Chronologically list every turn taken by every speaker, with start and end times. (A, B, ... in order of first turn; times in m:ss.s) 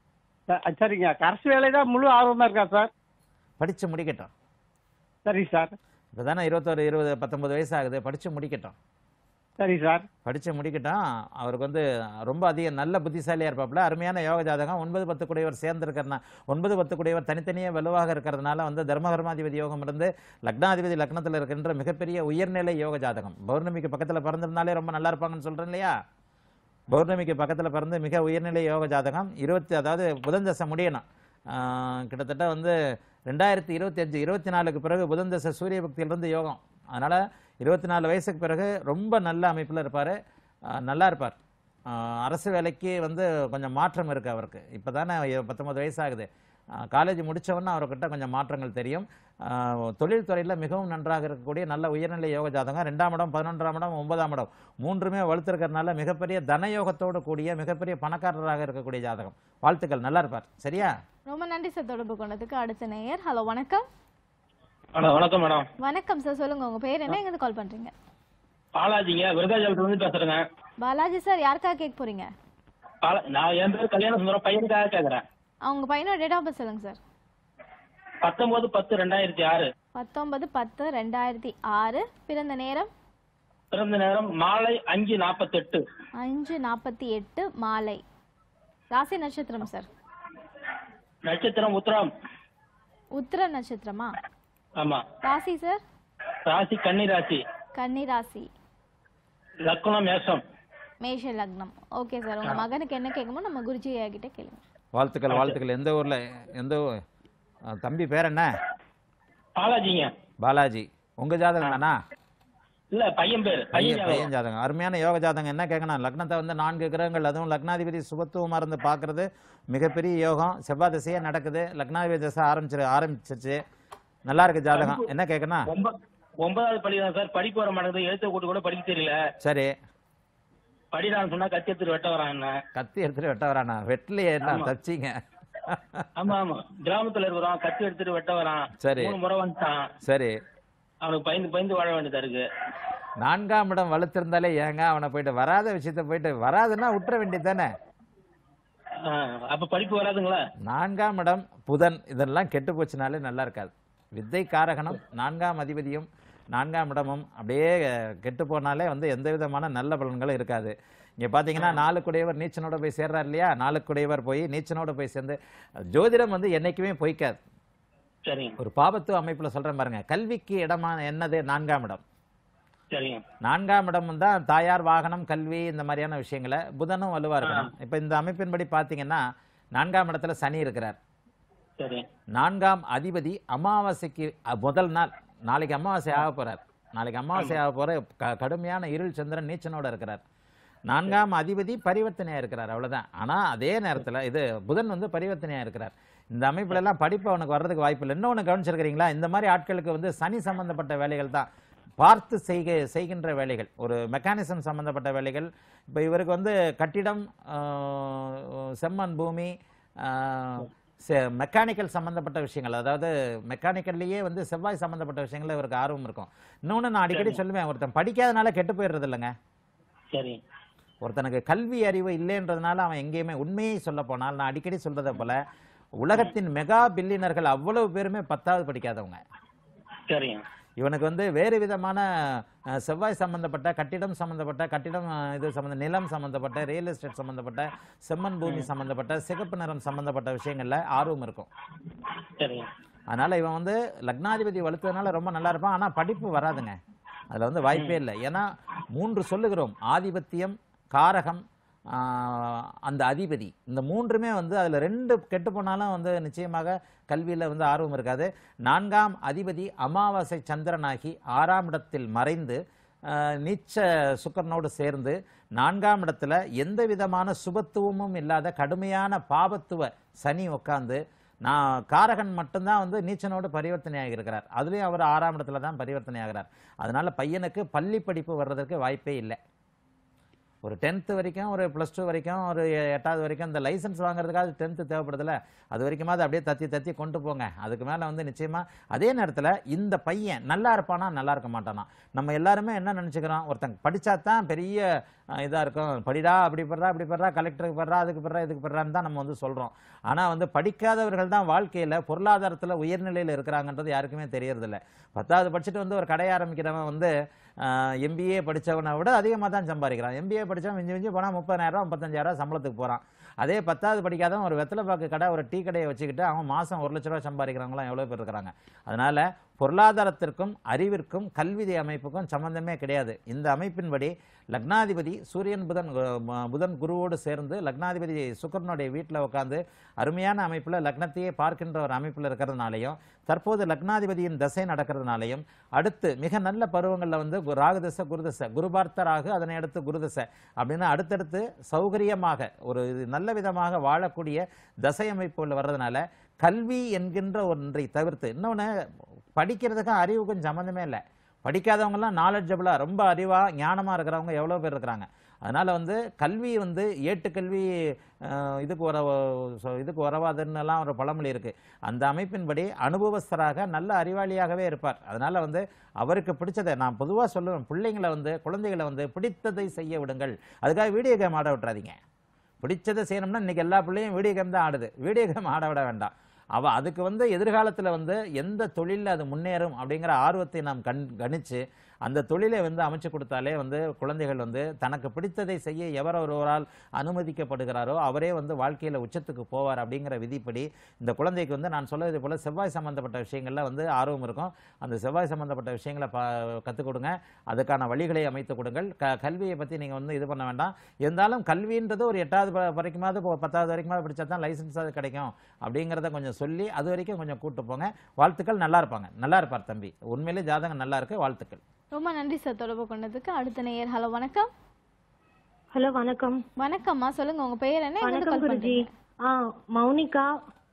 0:00.5-0:02.9 A
0:03.6-0:04.3 B
0:05.3-0:05.7 A
0:06.1-0:08.8 B
0:09.6-0:10.0 A
0:10.2-0:25.9 B
0:26.9-0:32.8 B
0:33.3-0:40.2 B
0:40.7-0:41.4 B
0:41.9-1:00.9 B
1:01.3-1:03.8 C
1:05.0-1:05.7 D
1:05.8-1:07.9 C
1:08.8-1:10.4 D
1:10.8-1:12.3 C
1:13.0-1:15.2 D
1:15.6-1:17.0 C
1:18.2-1:19.7 D
1:20.0-1:22.9 C
1:23.7-1:25.8 D
1:26.2-1:28.0 C
1:28.9-1:29.9 C
1:31.3-1:32.1 D
1:33.2-1:34.2 C
1:34.8-1:35.0 D
1:35.2-1:35.8 C
1:36.5-1:37.4 D
1:37.8-1:38.5 C
1:39.7-1:40.4 D
1:41.0-1:44.6 C
1:45.0-1:46.8 B
1:45.3-1:45.6 D
1:47.7-1:48.5 B
1:49.6-1:50.1 D
1:50.4-1:52.0 B
1:52.9-1:54.3 D
1:53.7-2:03.6 B
2:04.3-2:05.7 B
2:04.7-2:05.1 D
2:05.7-2:09.2 D
2:09.4-2:09.7 B
2:10.9-2:12.6 D
2:12.8-2:16.1 B
2:14.4-2:14.7 D
2:16.2-2:19.9 D
2:18.8-2:19.2 B
2:20.0-2:20.4 B
2:21.0-2:22.4 D
2:23.2-2:27.7 B
2:29.0-2:30.4 D
2:30.6-2:45.4 B
2:45.9-2:47.4 B
2:48.3-2:48.6 D
2:48.6-2:52.0 B
2:52.9-2:53.2 D
2:53.4-2:59.2 B
2:57.4-2:57.7 D
2:59.8-3:01.0 B
3:01.8-3:02.0 D
3:02.4-3:10.2 B
3:10.9-3:21.5 B
3:22.0-3:39.3 B
3:37.1-3:37.4 D
3:40.1-3:40.4 D
3:41.0-3:45.4 B
3:46.0-3:49.2 B
3:50.1-3:50.4 D
3:50.8-4:01.5 B
4:02.4-4:02.7 D
4:03.1-4:39.4 B
4:07.7-4:08.0 D
4:40.6-5:48.7 B
5:49.4-5:57.7 B
5:58.2-6:12.0 B
6:12.6-6:51.6 B
6:51.9-6:54.5 C
6:55.7-6:56.4 E
6:56.6-6:58.9 C
6:58.0-7:00.3 E